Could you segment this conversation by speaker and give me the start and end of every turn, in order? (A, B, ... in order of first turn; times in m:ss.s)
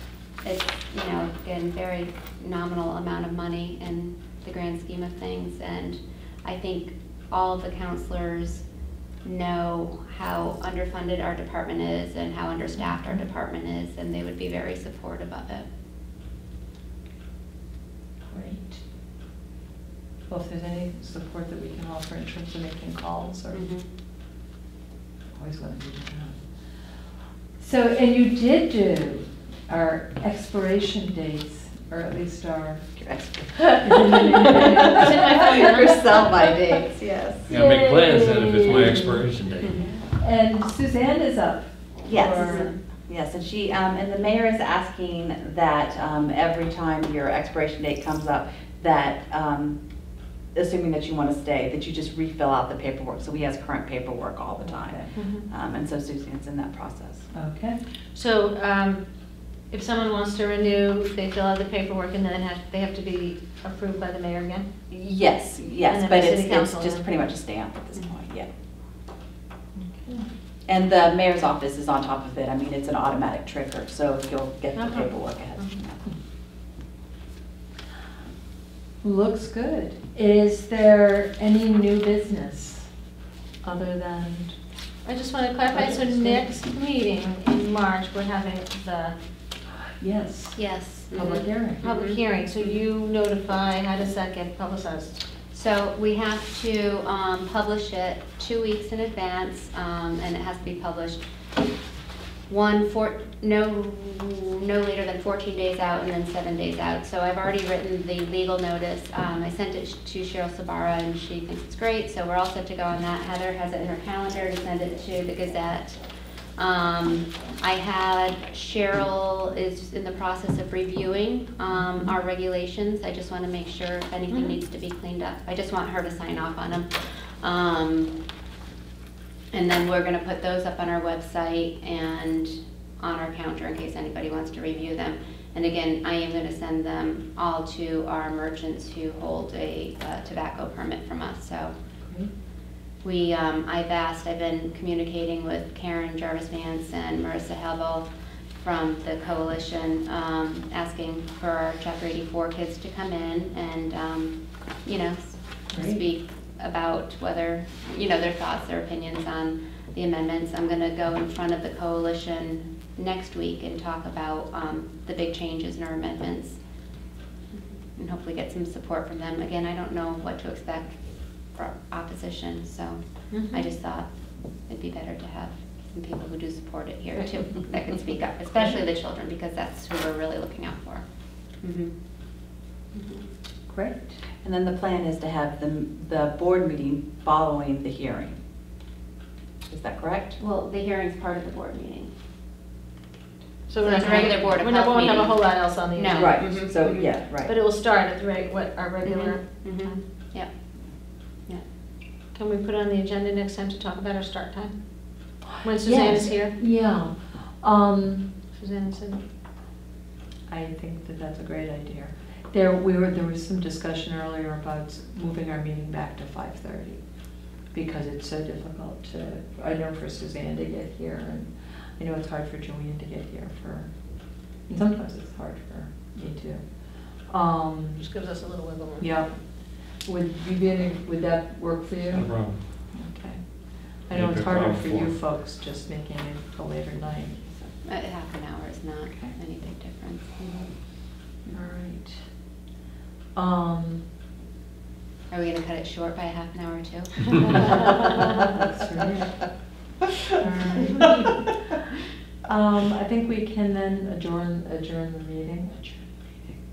0:00.4-0:08.6 A
0:09.2-0:15.6 A
0:12.8-0:13.2 B
0:18.3-0:18.8 B
0:20.3-0:23.6 B
0:23.5-0:23.8 A
0:25.3-0:26.5 B
0:27.6-0:32.9 B
0:33.0-0:37.6 C
0:33.6-0:36.0 B
0:34.9-0:35.8 D
0:37.5-0:39.2 B
0:37.5-0:39.8 E
0:39.8-0:40.1 C
0:40.2-0:42.7 B
0:42.0-0:49.8 C
0:42.4-0:42.8 A
0:50.5-0:57.3 C
0:55.2-0:55.4 D
0:57.3-0:57.8 B
0:58.1-0:59.0 D
0:59.7-1:04.7 D
1:04.9-1:08.5 C
1:05.9-1:07.0 D
1:09.8-1:10.3 B
1:10.7-1:16.0 C
1:14.8-1:15.8 D
1:19.0-1:22.9 B
1:23.6-1:24.6 B
1:25.0-1:29.1 D
1:25.7-1:26.5 B
1:29.9-1:30.6 B
1:30.6-1:32.8 A
1:31.1-1:31.9 B
1:31.8-1:35.2 D
1:35.5-1:41.2 A
1:42.5-1:56.0 A
1:56.6-2:08.1 A
2:01.7-2:02.1 B
2:04.3-2:04.6 D
2:09.5-2:21.7 A
2:22.0-2:22.3 B
2:23.0-2:28.1 A
2:28.6-2:46.6 A
2:35.7-2:36.0 B
2:47.9-2:54.1 A
2:53.3-2:53.6 D
2:54.6-3:01.0 A
3:01.6-3:01.9 A
3:02.9-3:03.2 A
3:03.7-3:04.2 B
3:04.4-3:08.4 C
3:09.7-3:10.4 C
3:10.4-3:12.1 A
3:13.7-3:16.8 D
3:13.8-3:17.1 A
3:16.1-3:17.5 C
3:17.4-3:20.0 D
3:19.0-3:20.5 A
3:22.3-3:24.7 D
3:25.6-3:26.6 D
3:25.6-3:28.3 B
3:28.5-3:29.2 D
3:30.5-3:37.0 B
3:37.7-3:43.9 B
3:44.6-3:48.1 B
3:48.0-3:49.1 D
3:49.0-3:57.5 B
3:52.1-3:52.6 E
3:54.1-3:55.1 E
3:57.8-4:00.7 A
4:01.5-4:02.3 B
4:03.3-4:04.1 B
4:05.3-4:07.9 A
4:08.2-4:09.5 B
4:10.4-4:11.3 B
4:12.4-4:16.5 B